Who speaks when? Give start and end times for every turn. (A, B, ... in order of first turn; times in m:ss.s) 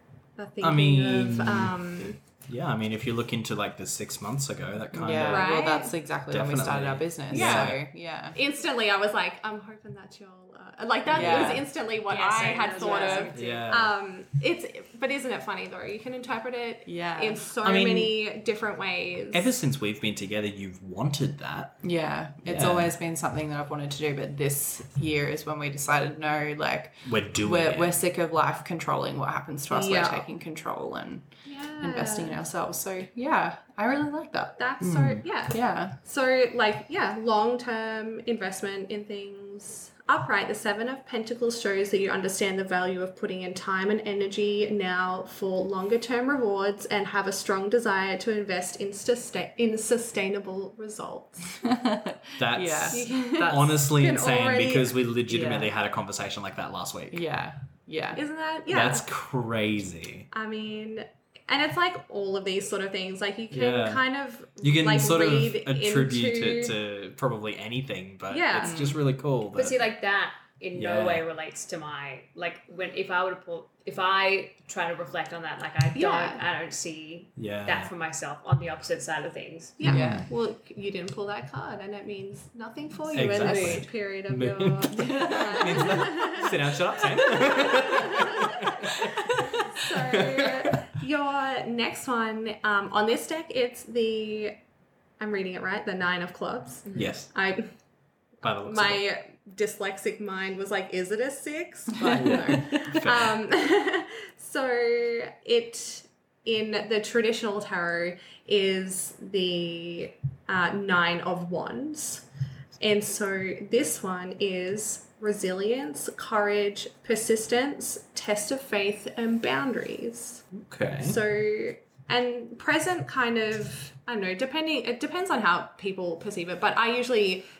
0:00.4-0:02.2 A
0:00.6-0:01.8 B
0:02.5-0:05.6 B
0:04.9-0:08.4 C
0:05.3-0:06.0 A
0:06.3-0:07.8 B
0:07.3-0:07.8 A
0:08.3-0:19.5 A
0:11.1-0:11.7 C
0:11.2-0:11.6 B
0:12.1-0:13.7 D
0:12.7-0:13.3 C
0:13.3-0:13.9 B
0:16.9-0:17.5 C
0:17.6-0:18.1 B
0:19.3-0:21.8 B
0:21.8-0:31.3 C
0:22.4-0:22.9 B
0:27.0-0:28.0 B
0:29.7-0:30.3 A
0:31.4-0:32.4 A
0:31.8-0:36.0 C
0:34.6-0:51.7 A
0:51.6-0:53.7 C
0:52.4-0:57.2 B
0:52.9-0:55.0 A
0:55.3-0:55.7 C
0:57.1-0:58.2 C
0:58.1-0:59.1 A
0:58.7-1:00.3 B
1:00.3-1:06.8 A
1:03.5-1:04.0 B
1:04.6-1:09.8 B
1:08.3-1:08.8 A
1:08.6-1:09.0 C
1:09.5-1:19.8 D
1:10.8-1:11.2 B
1:16.0-1:16.4 A
1:17.4-1:17.9 B
1:19.8-1:28.8 A
1:19.8-1:20.3 B
1:19.8-1:20.3 C
1:23.1-1:30.8 B
1:23.4-1:23.8 D
1:25.0-1:25.9 C
1:29.7-1:34.6 A
1:35.2-1:37.7 A
1:36.9-1:37.1 D
1:37.0-1:37.3 B
1:38.4-1:39.0 B
1:38.6-1:52.2 A
1:42.0-1:42.6 C
1:42.2-1:43.4 B
1:52.8-2:00.5 A
2:00.6-2:01.2 B
2:01.0-2:07.5 A